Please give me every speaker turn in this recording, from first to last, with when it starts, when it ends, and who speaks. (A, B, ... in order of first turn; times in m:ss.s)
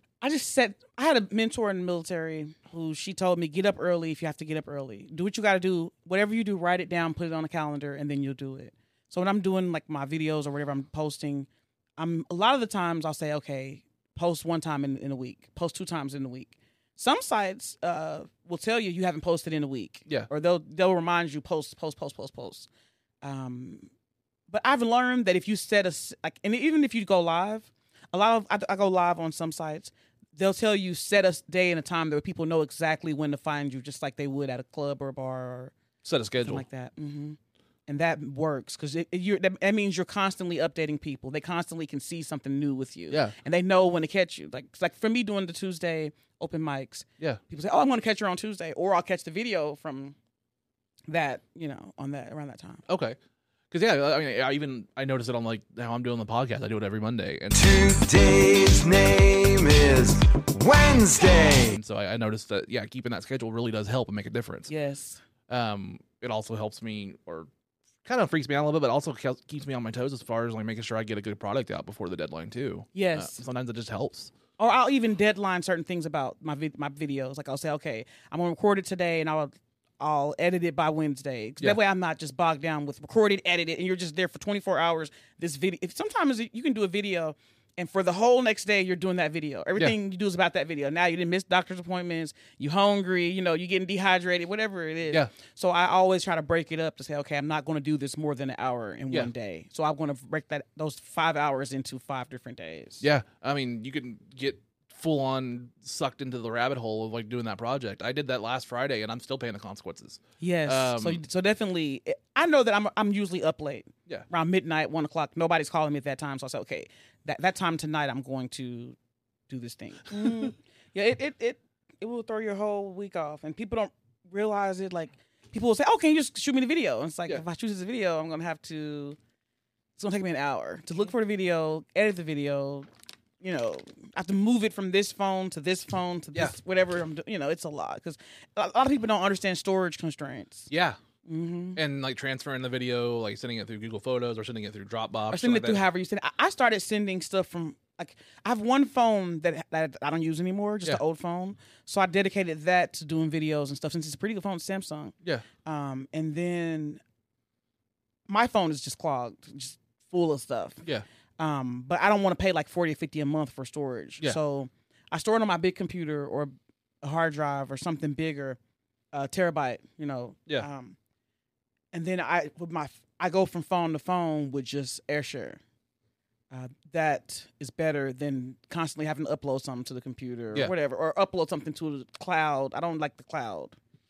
0:00.2-0:22.7 A
0:23.2-0:23.9 A
0:24.5-0:35.7 A
0:36.0-0:36.6 B
0:36.4-0:50.2 A
0:43.1-0:43.3 B
0:51.1-0:52.8 A
0:52.9-0:53.2 B
0:53.7-0:57.6 B
0:57.5-1:01.8 C
1:01.7-1:04.7 B
1:04.7-1:05.2 A
1:05.5-1:07.5 B
1:08.0-1:14.3 B
1:12.9-1:13.4 A
1:14.6-1:43.0 A
1:43.0-1:51.2 B
1:50.4-1:59.0 A
1:59.5-2:09.2 A
2:10.0-2:12.9 A
2:13.4-2:20.7 A
2:20.7-2:21.0 B
2:21.2-2:21.8 A
2:21.7-2:25.8 B
2:25.3-2:37.0 A
2:38.3-2:40.8 A
2:41.4-2:48.6 A
2:49.1-2:51.0 A
2:51.9-2:55.6 A
2:56.5-3:03.8 A